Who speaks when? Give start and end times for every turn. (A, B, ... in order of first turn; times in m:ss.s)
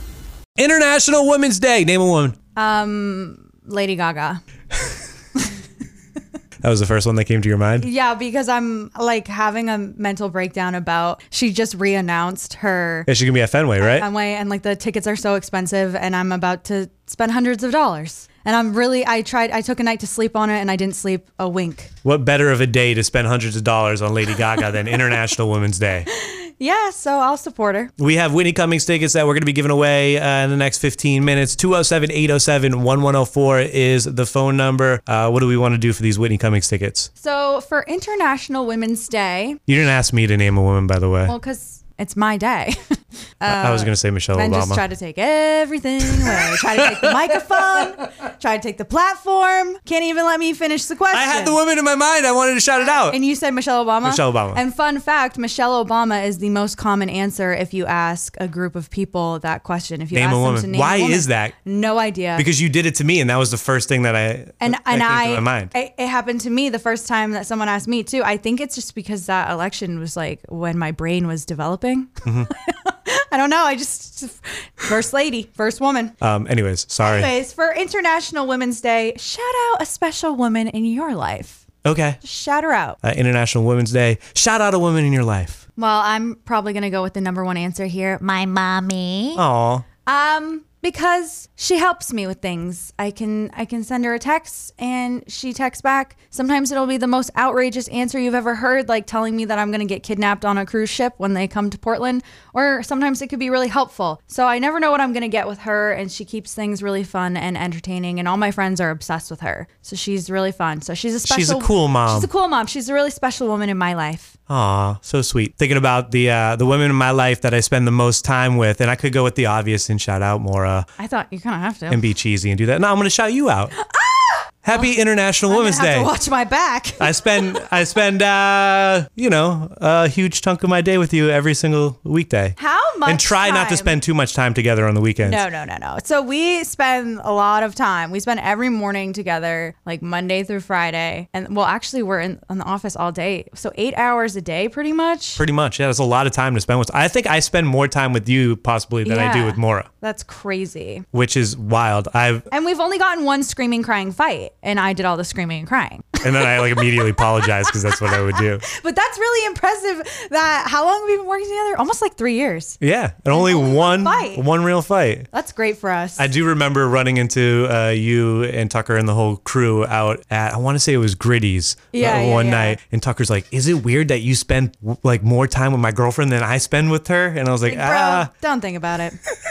0:00.6-0:02.4 A
0:02.6-0:04.4 B
0:06.6-0:07.9 A
0:07.8-0:13.1 B
0:13.1-0:14.1 A
0:13.8-0:21.9 B
0:22.0-0:26.1 A
0:26.1-0:27.9 B
0:28.0-0:37.1 A
0:37.2-0:39.6 B
0:39.7-0:41.3 A
0:41.2-0:51.6 B
0:43.5-0:44.8 A
0:46.0-0:47.2 A
0:51.1-0:53.2 A
0:53.1-1:02.4 B
0:54.0-0:54.6 A
1:00.1-1:01.5 A
1:02.4-1:05.7 A
1:04.6-1:16.1 B
1:12.2-1:12.5 A
1:16.2-1:17.3 A
1:17.0-1:21.6 B
1:21.8-1:22.2 A
1:22.2-1:23.0 B
1:23.0-1:25.6 A
1:25.8-1:29.4 B
1:29.3-1:29.8 A
1:30.0-1:54.3 B
1:51.2-1:52.3 A
1:54.5-2:00.8 A
2:01.0-2:02.0 B
2:01.9-2:03.7 A
2:03.8-2:04.9 B
2:04.6-2:06.1 A
2:05.5-2:07.2 B
2:07.0-2:15.4 A
2:12.6-2:14.0 B
2:15.2-2:25.4 B
2:25.4-2:29.9 A
2:29.0-2:31.0 B
2:31.1-2:32.5 A
2:32.5-2:37.3 B
2:36.2-2:38.6 A
2:38.0-2:42.8 B
2:42.8-2:45.3 A
2:43.3-2:44.4 B
2:45.3-2:46.3 B
2:46.2-2:58.3 A
2:51.9-2:52.8 B
2:57.7-2:59.2 B